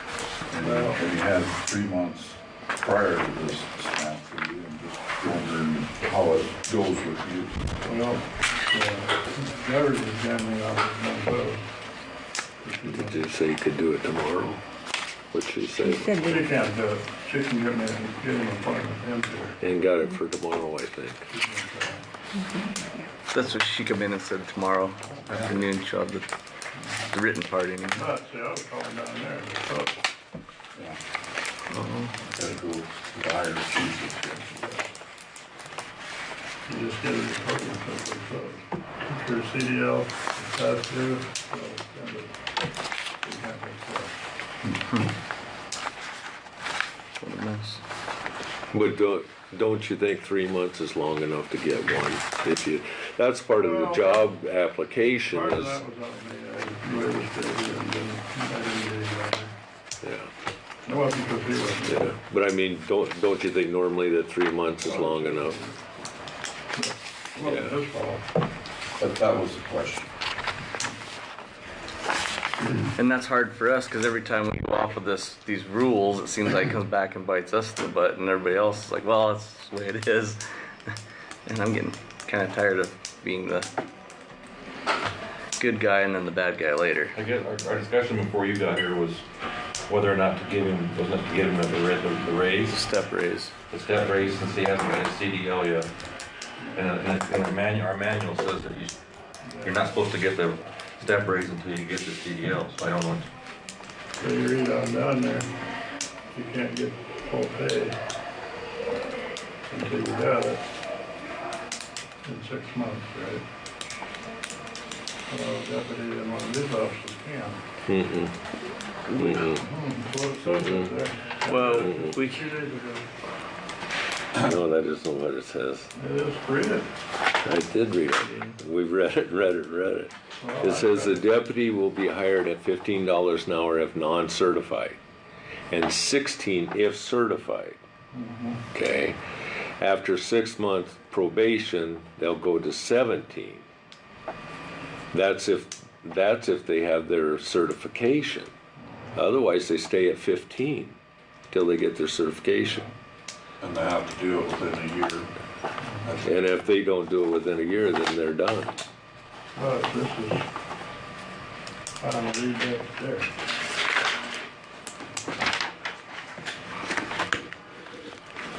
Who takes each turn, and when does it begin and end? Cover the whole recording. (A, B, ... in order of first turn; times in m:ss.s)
0:00.5-0:07.6 A
0:00.6-0:01.0 B
0:07.8-0:11.7 B
0:12.6-0:13.3 B
0:12.9-0:14.6 C
0:15.3-0:16.4 C
0:16.3-0:19.6 B
0:19.6-0:21.3 C
0:21.3-0:22.1 B
0:23.3-0:26.3 D
0:25.1-0:25.6 A
0:27.1-0:28.1 D
0:27.9-0:30.1 B
0:31.7-0:32.2 D
0:32.2-0:34.8 A
0:36.7-0:42.5 B
0:43.2-0:44.2 B
0:47.2-0:47.8 D
0:48.7-0:55.9 C
0:53.6-0:54.2 B
0:55.3-0:59.6 B
1:00.0-1:00.3 C
1:00.8-1:02.2 B
1:01.9-1:05.6 C
1:04.9-1:05.8 B
1:06.7-1:08.3 B
1:07.4-1:07.8 C
1:09.0-1:10.1 A
1:13.0-1:20.9 D
1:21.5-1:23.7 D
1:25.6-1:27.2 D
1:27.2-1:29.2 E
1:29.9-1:32.8 E
1:32.7-1:33.5 D
1:33.7-1:35.9 E
1:36.6-1:37.0 B
1:36.7-1:39.0 E
1:39.4-1:39.9 B
1:39.6-1:43.3 E
1:44.2-1:45.5 B
1:46.3-1:48.0 B
1:49.7-1:50.7 B
1:52.2-1:53.5 B
1:55.3-1:57.6 B
1:57.8-1:58.3 C
1:59.1-1:59.5 D
1:59.1-1:59.7 C
1:59.6-2:03.1 B
2:00.5-2:01.0 C
2:01.5-2:02.5 D
2:01.8-2:02.2 C
2:04.4-2:05.9 C
2:06.0-2:06.9 B
2:07.4-2:15.0 C
2:10.4-2:11.2 B
2:15.7-2:17.8 C
2:18.1-2:18.7 B
2:18.7-2:19.2 C
2:19.8-2:23.7 C
2:25.1-2:28.5 C
2:29.2-2:31.0 C
2:31.5-2:32.9 C
2:33.6-2:35.3 A
2:36.0-2:36.3 A
2:36.2-2:38.8 C
2:39.6-2:40.5 B
2:42.0-2:43.3 B